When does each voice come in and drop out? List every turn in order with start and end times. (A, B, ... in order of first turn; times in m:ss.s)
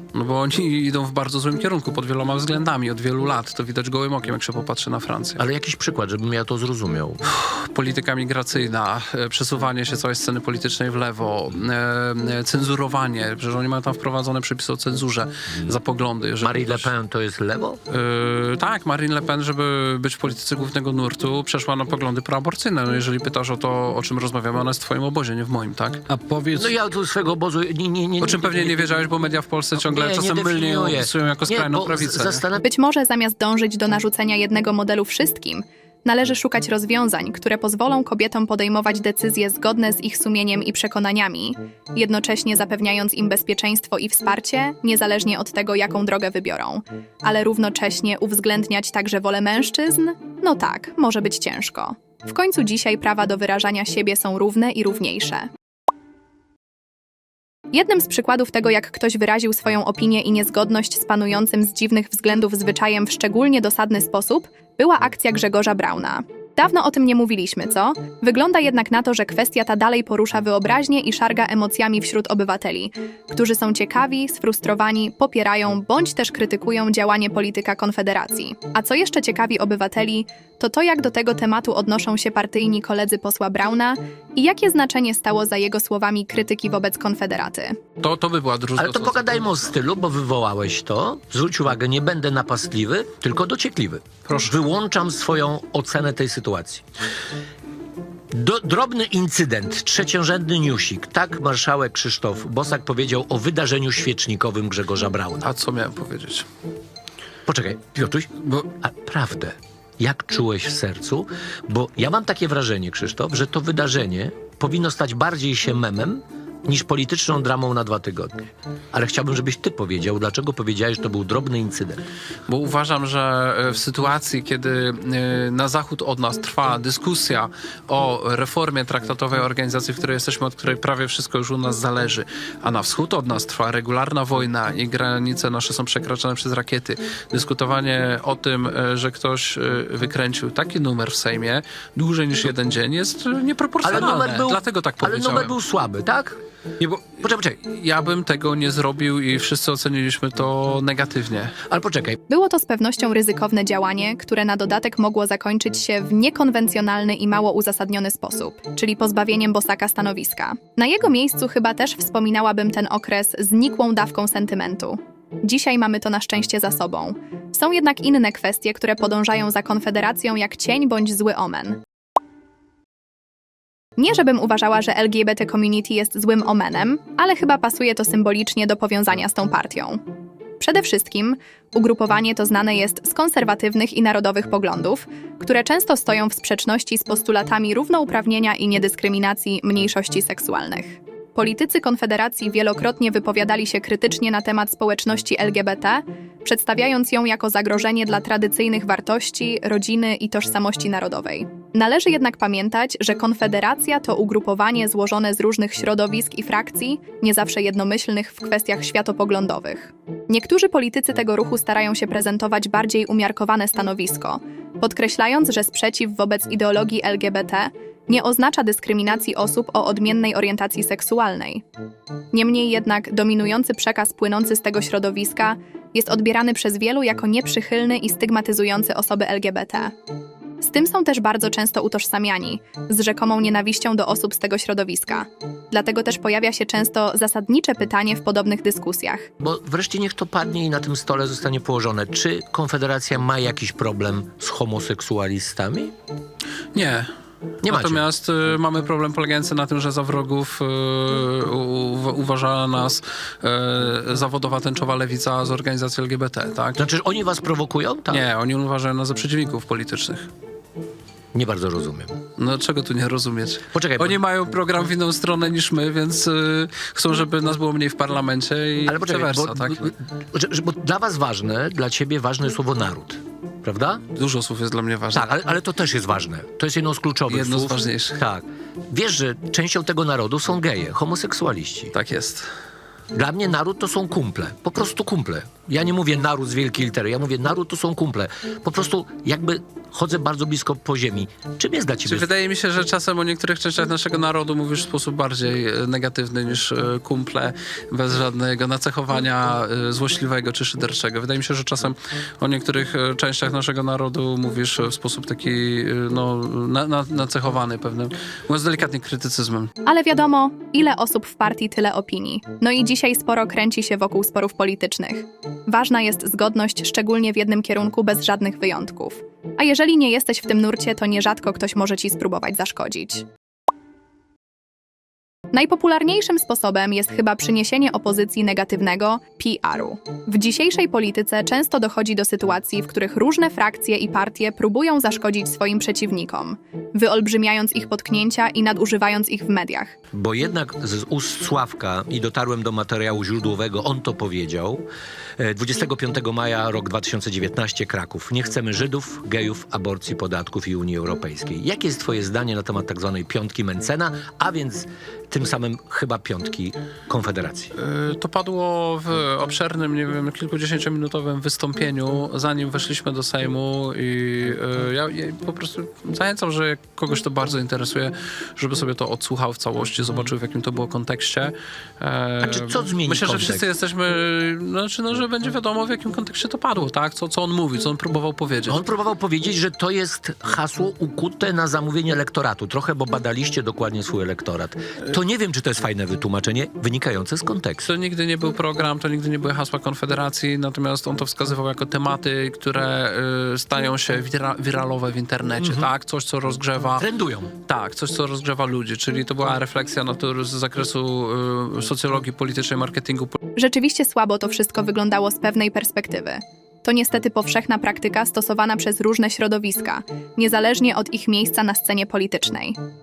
0:00.1-0:05.4 A
0:05.4-0:07.2 B
0:07.3-0:16.9 A
0:16.4-0:17.8 B
0:17.9-0:26.6 A
0:26.5-0:28.8 B
0:28.2-0:32.4 A
0:29.8-0:32.6 B
0:32.6-0:55.5 C
0:57.7-1:27.8 C
1:28.0-1:29.7 A
1:28.8-1:36.8 B
1:34.3-1:34.5 A
1:38.3-1:45.5 B
1:45.4-1:46.5 A
1:47.5-1:58.4 B
1:58.9-2:02.0 B
2:02.5-2:25.6 A
2:23.8-2:26.4 B
2:27.0-2:27.6 B
2:27.6-2:31.6 A
2:31.7-2:32.2 B
2:32.3-2:51.8 C
2:54.0-3:00.0 C
3:00.6-3:41.6 C
3:42.3-3:49.9 C
3:50.6-3:59.3 C
3:59.4-4:05.9 B
4:06.7-4:07.1 A
4:07.6-4:08.0 B
4:07.6-4:16.8 A
4:16.8-4:18.3 B
4:18.1-4:20.3 A
4:21.3-4:22.2 B
4:22.4-4:29.9 A
4:23.7-4:24.2 B
4:28.9-4:34.0 B
4:34.1-4:35.3 A
4:35.1-4:41.9 B
4:37.3-4:38.2 A
4:41.9-4:42.5 A
4:43.1-4:52.3 B
4:52.0-5:09.7 A
5:09.8-5:23.3 C
5:25.5-5:40.0 C
5:40.1-5:44.9 B
5:45.4-5:57.7 B
5:57.8-6:18.8 A
6:12.4-6:13.7 B
6:18.7-6:27.9 B
6:27.8-6:37.0 A
6:35.6-6:35.9 B
6:37.0-6:37.5 B
6:37.7-6:43.4 A
6:43.6-6:52.8 C